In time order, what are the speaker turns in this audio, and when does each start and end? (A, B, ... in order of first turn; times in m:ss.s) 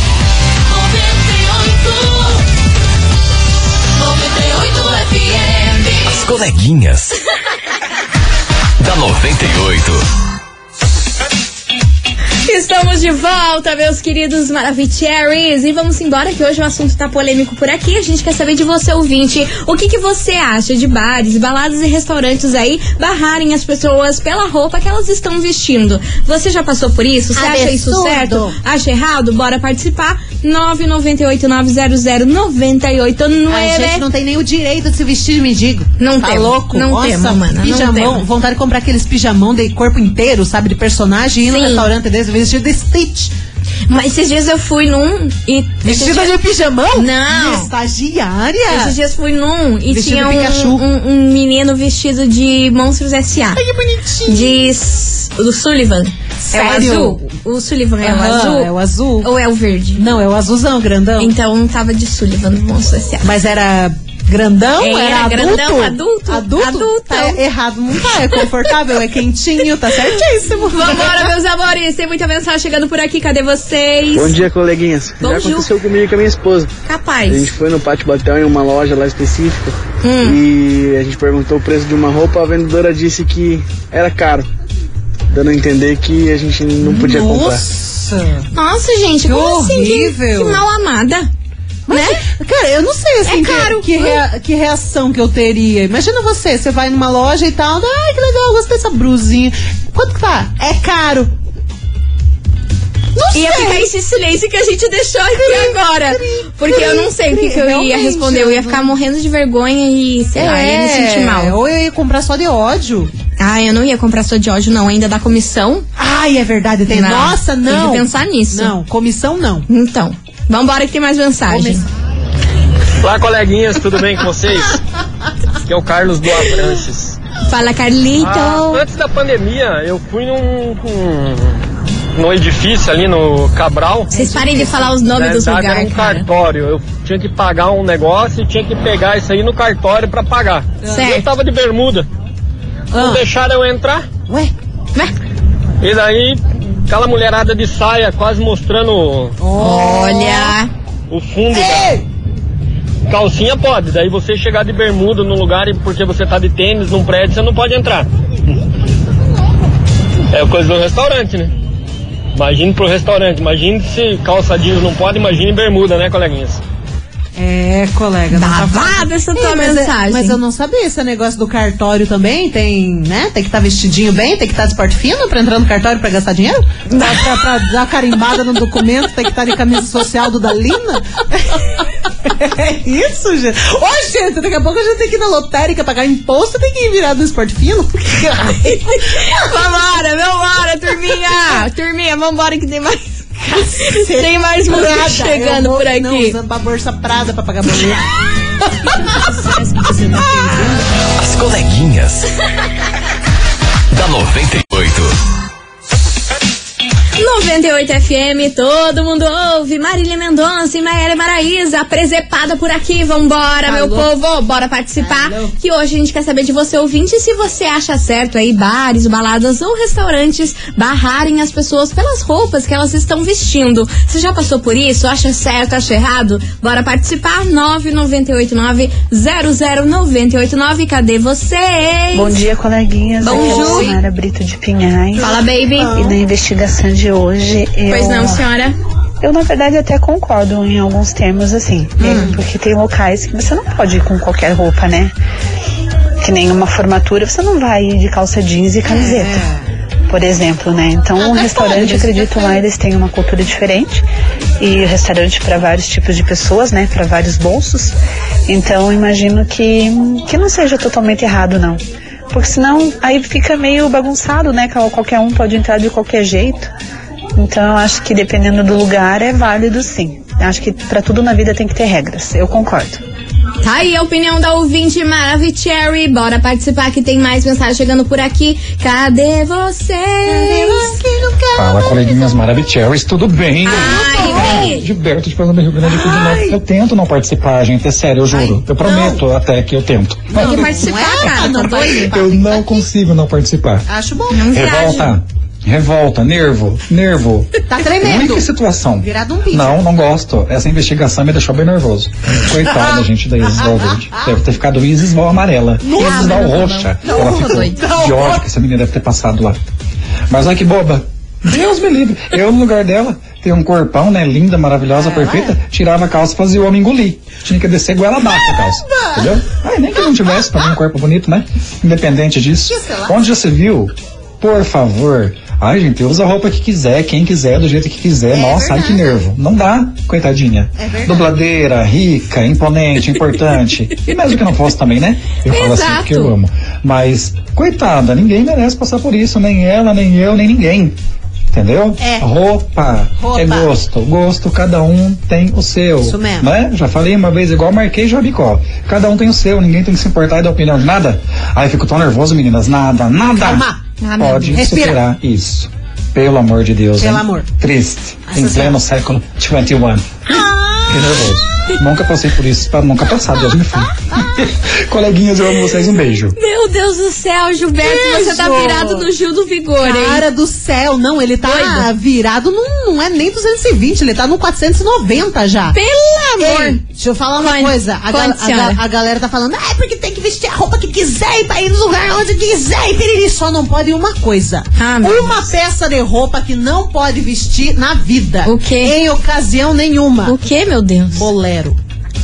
0:01.0-0:01.7 A
0:04.2-0:07.2 A
0:08.8-0:10.0 A
0:12.4-0:34.0 B
0:27.4-0:28.6 C
0:33.5-0:43.3 C
0:36.0-0:38.2 B
0:41.5-0:41.9 B
0:43.9-0:46.4 B
0:45.8-0:49.0 C
0:46.9-0:47.7 B
0:48.7-0:53.6 B
0:49.9-0:50.8 C
0:53.6-0:54.6 C
0:54.2-1:00.0 B
0:56.4-0:57.2 C
0:58.0-0:59.3 C
1:00.0-1:01.3 C
1:01.2-1:03.3 B
1:03.2-1:11.3 C
1:04.8-1:07.4 B
1:10.7-1:14.4 B
1:14.1-1:16.7 D
1:15.2-1:15.7 B
1:16.8-1:17.5 B
1:17.3-1:24.5 D
1:20.0-1:20.4 B
1:25.3-1:27.6 D
1:26.8-1:28.5 C
1:28.5-1:31.3 B
1:29.3-1:30.6 C
1:31.9-1:41.3 C
1:31.9-1:32.2 B
1:33.2-1:34.2 B
1:43.2-1:43.8 C
1:43.3-1:51.5 B
1:45.3-1:48.9 C
1:50.4-1:53.1 C
1:53.4-1:55.9 B
1:56.0-1:59.7 C
1:56.9-1:58.7 B
1:59.7-2:01.8 B
2:01.5-2:01.8 C
2:03.0-2:04.8 E
2:05.7-2:07.2 E
2:07.5-2:08.8 B
2:08.2-2:11.6 E
2:12.2-2:14.1 E
2:14.1-2:16.2 B
2:14.1-2:14.9 C
2:15.0-2:22.0 E
2:20.9-2:21.2 B
2:22.9-2:23.2 C
2:22.9-2:24.0 E
2:24.3-2:24.5 C
2:25.8-2:29.3 E
2:29.4-2:30.5 C
2:29.6-2:30.7 B
2:31.1-2:32.0 E
2:31.5-2:32.0 C
2:33.1-2:38.1 E
2:40.3-2:41.5 E
2:42.3-2:46.6 E
2:47.4-3:09.5 C
2:48.3-2:50.4 B
2:57.0-2:57.3 B
3:08.9-3:16.4 B
3:11.2-3:11.6 C
3:13.4-3:20.8 C
3:20.2-3:20.8 B
3:21.2-3:22.3 A
3:23.9-3:25.2 A
3:27.2-3:52.4 B
3:33.6-3:34.1 C
3:35.0-3:35.5 C
3:52.1-3:55.4 F
3:53.2-3:54.0 B
3:53.2-3:53.9 C
3:55.2-3:55.9 B
3:55.2-3:56.2 C
3:55.9-3:58.5 F
3:57.9-3:58.8 B
3:59.2-4:05.2 F
4:02.0-4:02.4 C
4:06.2-4:09.4 F
4:08.8-4:09.7 C
4:10.1-4:14.0 F
4:11.2-4:12.6 C
4:14.6-4:18.0 F
4:18.5-4:26.7 F
4:27.4-4:33.0 F
4:33.6-4:41.0 B
4:40.3-4:42.3 C
4:41.5-4:50.8 G
4:43.6-4:44.8 B
4:43.7-4:44.8 C
4:45.8-4:46.6 C
4:48.3-4:49.2 C
4:50.3-4:52.1 B
4:50.4-4:52.9 C
4:52.0-4:53.9 G
4:53.9-4:54.7 C
4:54.3-4:55.1 B
4:54.5-5:09.6 G
4:57.7-4:58.5 C
4:59.0-4:59.8 C
5:02.7-5:04.3 C
5:05.8-5:08.4 C
5:06.0-5:07.8 B
5:10.3-5:41.0 G
5:14.9-5:15.6 C
5:18.3-5:19.3 C
5:20.0-5:20.7 C
5:22.7-5:23.2 C
5:28.3-5:29.2 C
5:30.8-5:31.3 C
5:35.5-5:36.3 B
5:41.5-5:53.7 G
5:42.0-5:42.3 C
5:43.2-5:43.7 C
5:46.0-5:46.5 C
5:53.4-5:55.0 C
5:54.0-5:54.4 B
5:54.2-6:00.2 G
5:57.0-5:57.5 C
5:58.3-5:58.8 C
6:00.3-6:01.3 C
6:00.9-6:06.4 G
6:06.4-6:10.2 B
6:07.8-6:09.1 C
6:09.8-6:15.8 C
6:11.4-6:11.9 B
6:15.7-6:16.8 B
6:16.4-6:30.4 C
6:17.4-6:18.8 B
6:24.8-6:25.5 B
6:28.5-6:29.0 B
6:30.2-6:31.3 B
6:31.1-6:31.8 C